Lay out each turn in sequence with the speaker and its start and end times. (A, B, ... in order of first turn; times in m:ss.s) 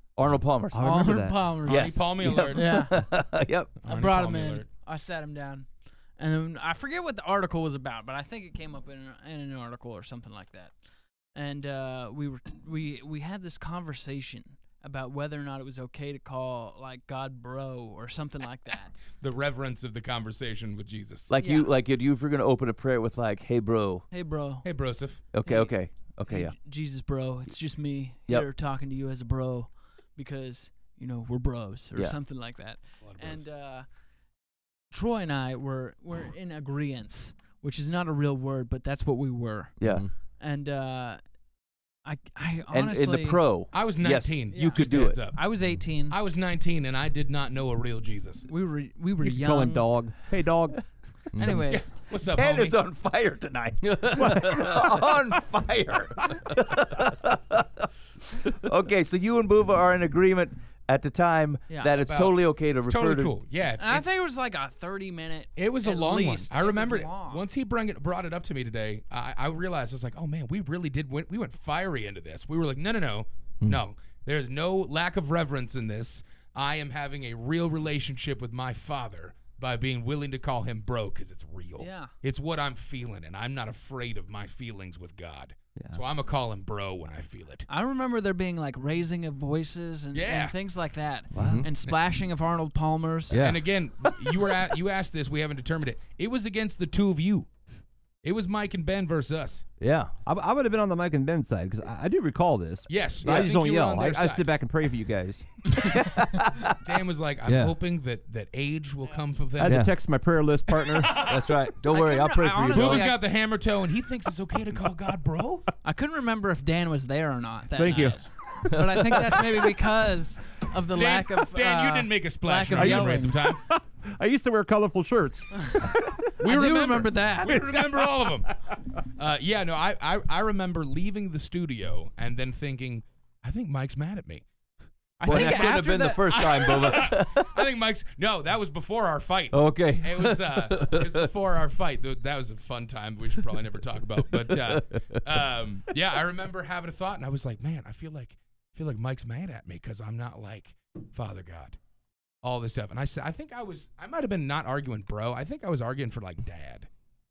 0:00.2-0:00.9 A
0:00.7-0:01.6 B
0:00.8-0:03.0 C
0:01.6-0:03.8 A
0:01.6-0:02.9 D
0:03.8-0:04.7 D
0:03.9-0:10.7 C
0:11.3-0:19.0 C
0:19.2-0:21.3 D
0:21.3-0:24.0 A
0:21.4-0:21.7 C
0:24.1-0:24.7 C
0:24.6-0:25.2 D
0:25.3-0:26.5 A
0:25.4-0:33.9 C
0:33.0-0:33.4 D
0:34.9-0:39.7 C
0:39.8-0:40.0 A
0:39.8-0:40.1 E
0:40.4-0:41.2 C
0:42.0-0:43.4 C
0:42.7-0:45.2 A
0:43.7-0:45.4 D
0:44.5-0:46.2 C
0:46.1-0:48.4 D
0:48.5-0:49.9 C
0:49.2-0:50.8 B
0:51.3-0:51.7 E
0:51.4-0:51.9 C
0:51.7-0:52.8 D
0:52.2-1:03.3 A
0:53.9-0:54.7 E
1:01.7-1:01.9 C
1:02.0-1:04.0 D
1:03.8-1:07.4 C
1:05.6-1:27.6 D
1:21.8-1:22.1 C
1:27.7-1:33.4 C
1:30.1-1:30.5 D
1:31.4-1:31.6 B
1:31.4-1:31.7 E
1:33.3-1:37.5 D
1:33.3-1:33.6 E
1:38.2-1:39.6 D
1:39.8-1:40.1 E
1:40.2-1:45.9 B
1:42.9-1:44.4 D
1:45.8-1:46.0 D
1:46.0-1:46.8 A
1:46.6-1:49.8 D
1:47.4-1:47.8 E
1:49.6-1:51.2 B
1:49.6-1:50.0 E
1:50.7-1:51.5 D
1:51.2-1:53.1 E
1:51.9-1:53.2 C
1:52.7-1:55.7 D
1:55.8-2:03.4 C
1:57.7-1:58.2 B
1:58.7-1:59.2 E
2:00.9-2:03.6 D
2:02.8-2:06.3 B
2:05.6-2:05.8 C
2:06.4-2:07.7 C
2:06.4-2:14.4 D
2:07.6-2:08.4 B
2:15.2-2:17.0 C
2:15.2-2:31.8 D
2:15.2-2:17.5 E
2:19.5-2:21.2 E
2:24.6-2:25.2 E
2:32.4-2:36.9 D